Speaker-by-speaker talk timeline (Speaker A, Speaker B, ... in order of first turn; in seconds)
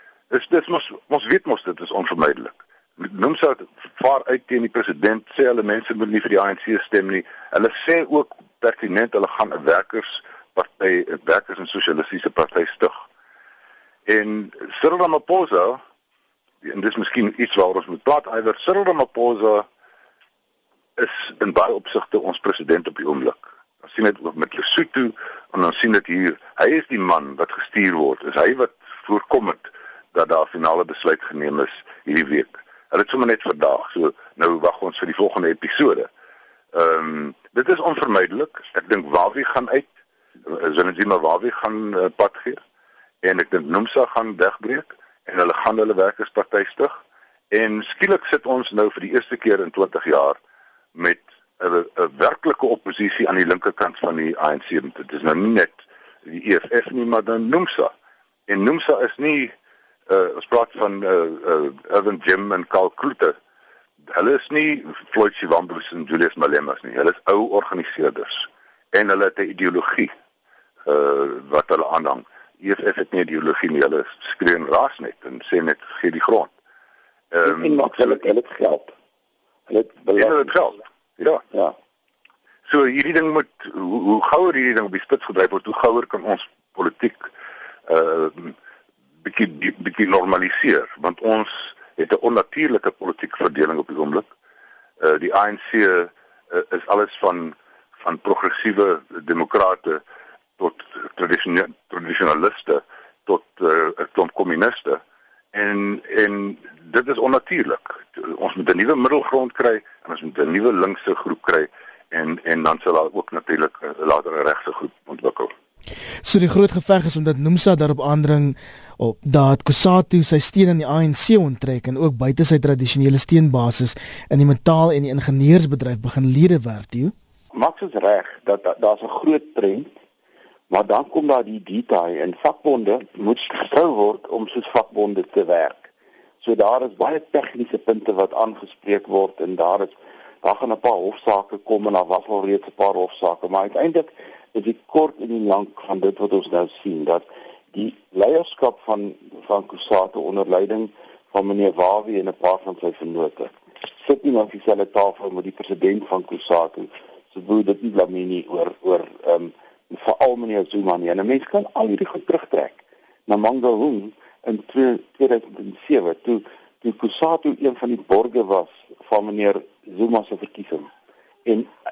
Speaker A: 0.3-13.0, 14.1-15.8, 16.6-19.7, 21.0-36.1, 36.7-39.9, 40.5-42.6, 43.2-47.0, 47.5-50.4, 50.9-55.7, 56.2-57.9, 58.5-59.5, 60.1-63.4, 64.1-70.1, 70.8-76.5, 77.3-78.1, 80.2-81.4, 82.7-87.3, 87.9-88.5, 89.2-94.3, 95.0-100.0, 100.6-105.0, 105.5-115.5
Speaker B: 77.4-78.9, 79.7-80.6, 81.5-81.8, 127.5-129.9, 130.7-135.9, 136.4-170.9
Speaker C: 116.2-127.1